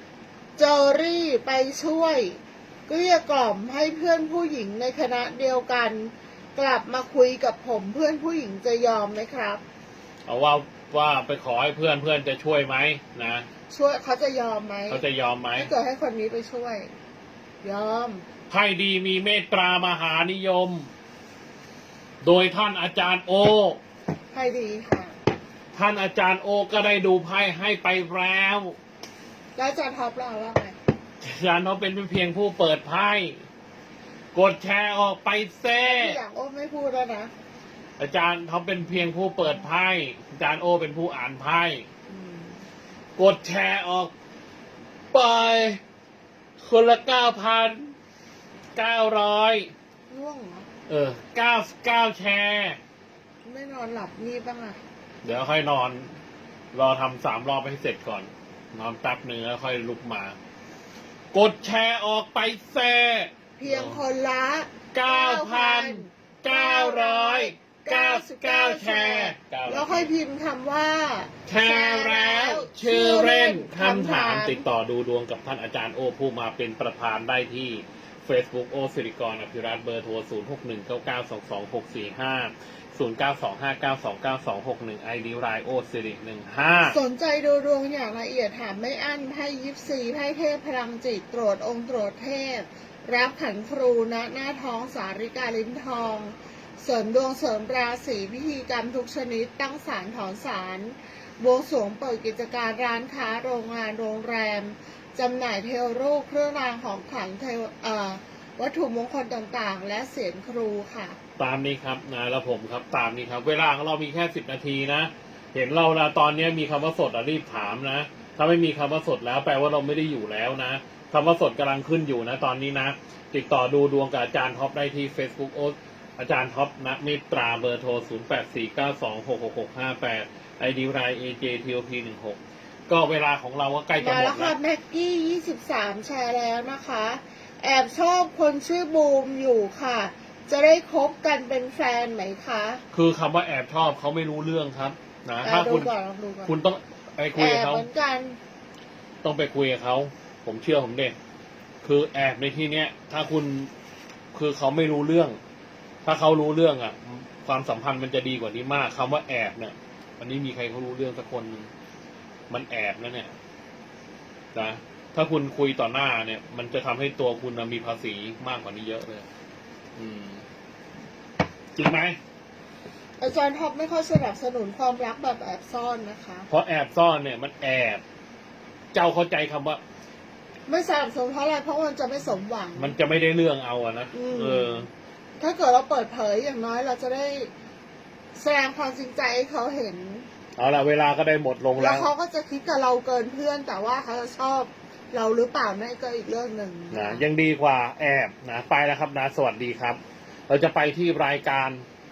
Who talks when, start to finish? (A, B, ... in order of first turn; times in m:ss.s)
0:00.6-0:09.6 A
0:10.3-0:13.5 B
0:13.7-0:15.0 A
0:14.9-0:15.7 B
0:15.6-0:16.9 A
0:17.6-0:18.2 A
0:18.5-0:20.9 B
0:22.2-0:23.8 B
0:24.3-0:25.1 A
0:25.7-0:28.8 B
0:29.6-0:30.8 A
0:31.2-0:33.4 B
0:34.3-0:36.2 B
0:35.8-0:37.3 A
0:38.0-0:41.8 B
0:42.1-0:42.6 A
0:43.2-0:44.1 B
0:45.1-0:45.8 B
0:46.6-0:47.9 B
0:48.8-0:49.7 B
0:50.1-0:50.7 A
0:50.9-0:52.8 B
0:53.4-0:54.8 A
0:55.2-0:56.1 B
0:56.7-1:00.4 B
1:01.3-1:04.0 B
1:03.6-1:14.7 A
1:04.9-1:10.1 B
1:11.5-1:27.0 B
1:26.9-1:51.2 A
1:51.4-2:14.6 B
2:14.0-2:22.8 A
2:22.9-2:25.9 B
2:25.4-2:26.5 A
2:26.5-2:27.9 B
2:27.4-2:28.4 A
2:29.2-2:31.2 B
2:31.8-2:33.7 B
2:34.3-2:35.4 B
2:36.0-2:41.7 B
2:42.5-2:43.3 B
2:44.6-2:49.3 B
2:50.0-2:50.4 B
2:51.8-2:52.2 B
2:53.2-2:56.5 A
2:56.5-2:58.0 B
2:58.9-2:59.8 B
3:00.7-3:03.0 A
3:02.8-3:04.9 B
3:04.1-3:04.9 A
3:05.4-3:07.5 A
3:08.4-3:10.3 A
3:10.6-3:12.1 B
3:11.8-3:17.2 A
3:16.9-3:21.8 B